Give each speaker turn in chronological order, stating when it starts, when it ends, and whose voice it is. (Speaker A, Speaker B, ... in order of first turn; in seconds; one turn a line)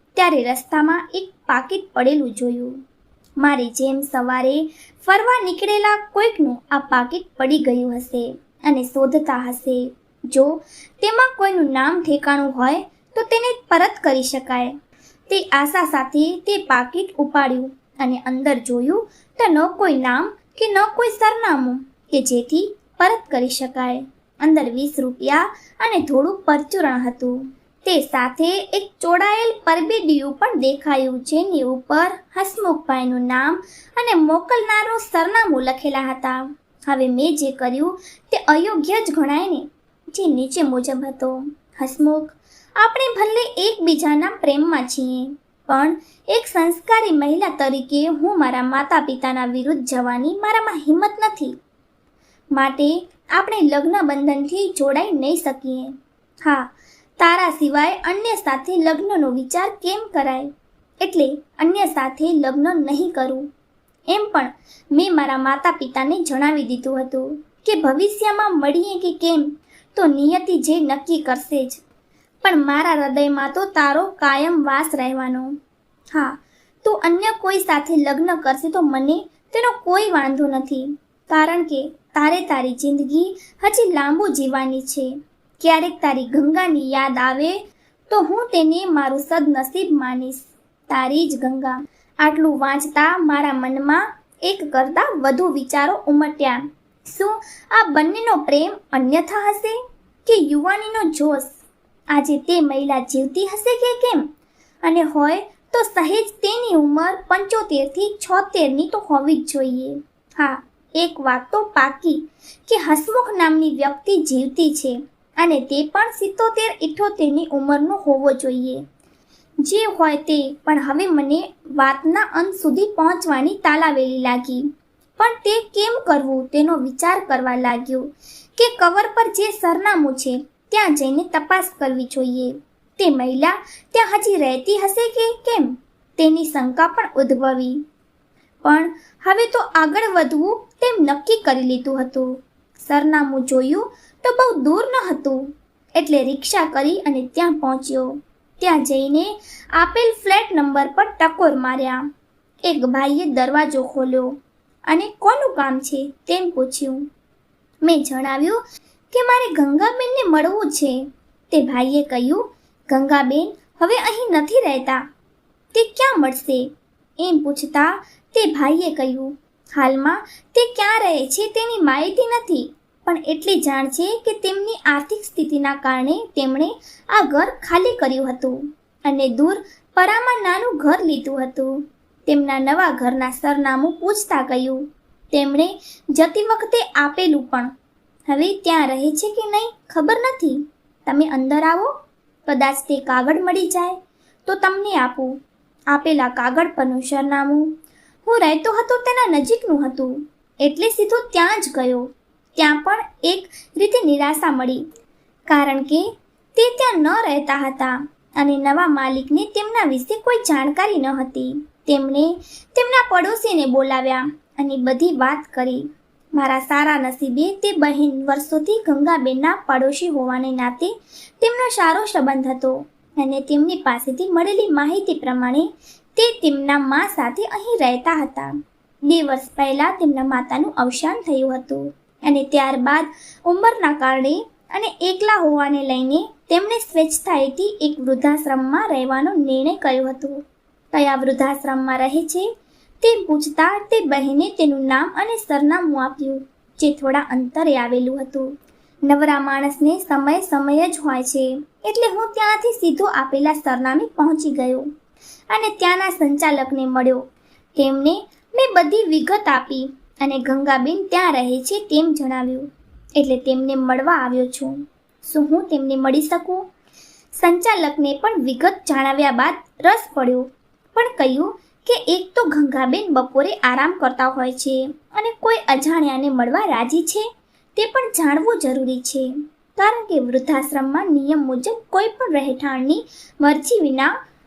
Speaker A: 0.1-2.8
Speaker A: 3.4-14.8
Speaker A: 15.3-51.5
Speaker A: 52.5-60.5
Speaker A: 61.0-63.5
Speaker A: 64.1-71.8
Speaker A: 72.4-75.6
Speaker A: 76.1-87.6
Speaker A: 88.1-104.3
Speaker A: 104.8-118.8
Speaker A: 119.6-137.8
Speaker A: 138.6-152.1
Speaker A: 152.6-154.4
Speaker A: 154.9-157.1
Speaker A: 157.8-158.6
Speaker A: 159.1-165.0
Speaker A: 165.7-187.7
Speaker A: 188.3-191.9
Speaker A: 192.4-195.3
Speaker A: 195.9-197.7
Speaker A: 198.2-204.8
Speaker A: 205.5-228.5
Speaker A: 229.0-242.4
Speaker A: 243.0-248.5
Speaker A: 249.1-254.9
Speaker A: 255.5-257.2
Speaker A: 257.7-266.7
Speaker A: 267.3-284.1